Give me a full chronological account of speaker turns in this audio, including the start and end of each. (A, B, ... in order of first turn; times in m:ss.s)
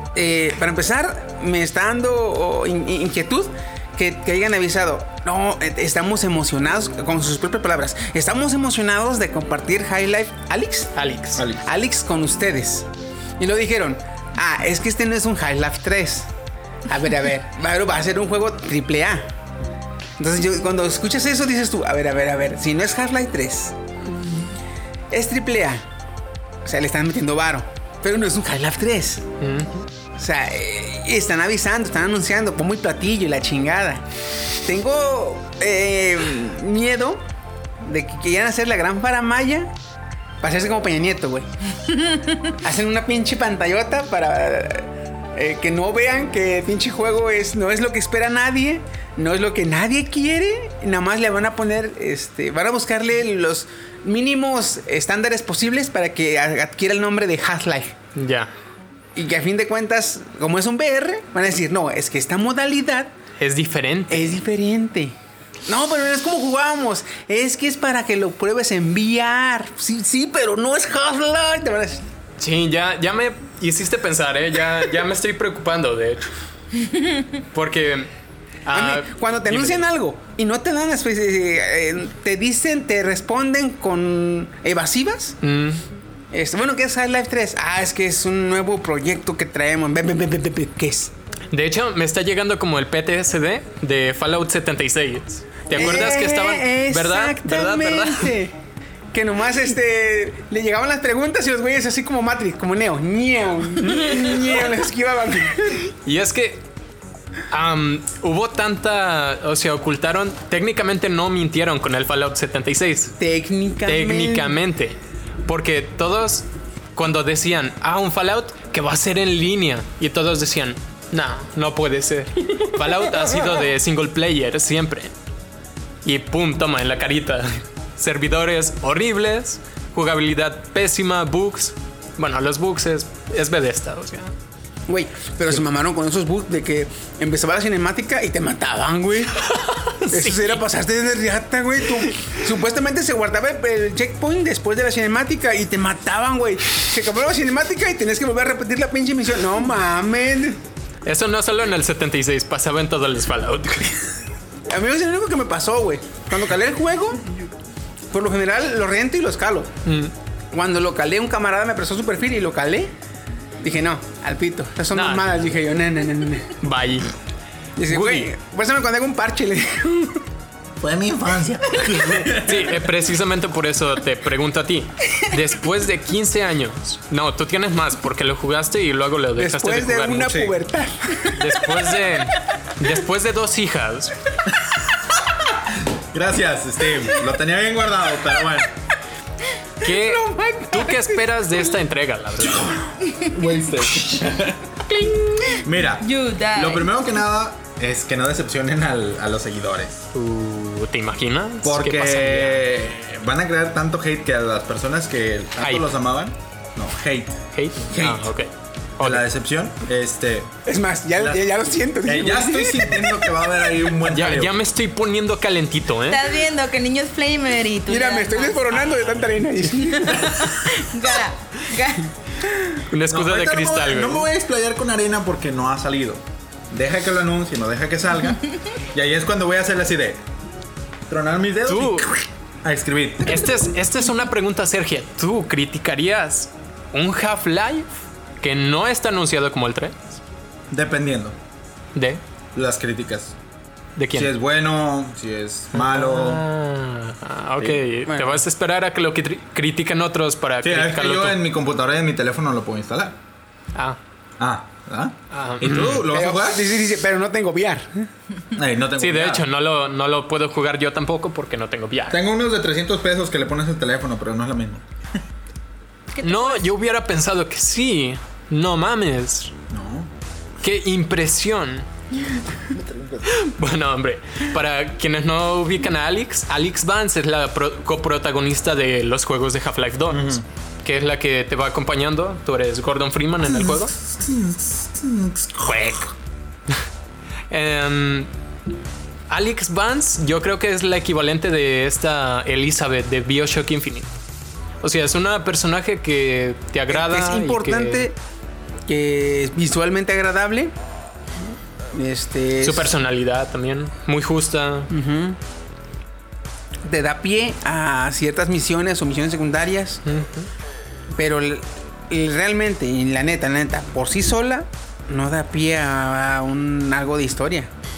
0:00.1-0:10.9 A
0:10.9-0:11.4 B
0:11.4-0:11.6 C
0:11.6-0:16.3 A
0:16.9-0:19.3 A
0:20.2-0:23.8 A
0:25.1-0:25.9 A
0:26.6-0:29.3 A
0:29.4-0:29.8 B
0:30.1-0:34.0 A
0:34.6-0:37.2 A
0:37.8-0:39.7 A
0:40.4-0:41.5 A
0:42.5-0:58.0 A
0:58.1-0:58.5 B
0:59.2-1:03.1 A
1:03.4-1:04.3 B
1:04.1-1:05.2 A
1:05.7-1:12.0 A
1:12.4-1:16.3 B
1:17.5-1:18.1 B
1:18.6-1:19.9 B
1:18.7-1:25.4 A
1:25.4-1:25.8 B
1:26.3-1:31.1 A
1:31.5-1:38.3 B
1:35.7-1:38.5 A
1:39.1-1:45.9 A
1:43.8-1:44.5 B
1:46.0-1:46.6 B
1:47.5-1:53.1 B
1:53.2-1:54.6 A
1:53.8-2:05.1 B
2:06.0-2:14.3 B
2:14.9-2:19.4 A
2:19.4-2:20.6 B
2:20.1-2:30.6 A
2:31.0-2:34.0 B
2:34.7-2:37.3 A
2:38.1-2:39.7 A
2:39.8-2:40.1 B
2:40.5-2:42.9 A
2:43.6-2:46.6 A
2:44.9-2:45.5 B
2:46.6-2:47.1 B
2:47.8-2:50.2 A
2:47.8-2:48.3 B
2:50.8-2:52.8 C
2:52.2-3:00.4 B
2:59.4-3:01.5 A
3:00.2-3:00.5 C
3:01.3-3:04.2 B
3:04.5-3:08.7 C
3:09.8-3:12.8 B
3:09.8-3:11.5 A
3:12.4-3:14.8 C
3:15.0-3:16.9 D
3:15.6-3:20.1 C
3:20.1-3:22.6 B
3:21.6-3:28.3 C
3:25.6-3:25.9 B
3:27.5-3:29.2 B
3:29.0-3:30.5 C
3:30.6-3:33.3 A
3:31.2-3:31.4 C
3:32.0-3:34.5 C
3:34.0-3:36.3 B
3:36.1-3:39.1 D
3:37.9-3:40.5 A
3:39.8-3:42.1 D
3:42.4-3:42.8 A
3:42.9-3:44.3 B
3:43.1-3:50.2 C
3:51.1-3:53.5 C
3:51.7-3:52.1 B
3:53.2-3:57.9 B
3:58.4-4:00.2 B
4:00.7-4:01.4 C
4:01.9-4:02.2 B
4:02.5-4:03.3 C
4:04.0-4:04.3 B
4:04.1-4:06.4 C
4:05.7-4:11.4 B
4:08.0-4:08.4 A
4:10.6-4:13.2 C
4:14.4-4:16.6 C
4:15.3-4:16.0 B
4:16.1-4:18.1 A
4:18.5-4:19.4 C
4:19.0-4:22.2 B
4:22.1-4:24.8 C
4:26.1-4:26.6 D
4:26.2-4:29.5 B
4:29.7-4:30.1 C
4:30.6-4:31.9 B
4:32.7-4:33.3 C
4:33.2-4:43.9 B
4:40.1-4:40.4 C
4:43.5-4:46.0 C
4:45.6-4:46.1 B
4:47.5-4:48.3 B
4:49.3-4:54.1 B
4:54.8-4:58.1 B
4:56.9-4:58.2 A
4:58.9-5:00.7 A
5:01.9-5:02.9 A
5:02.6-5:04.9 B
5:04.9-5:05.4 A
5:06.8-5:10.0 A
5:10.0-5:10.5 B
5:11.1-5:17.7 A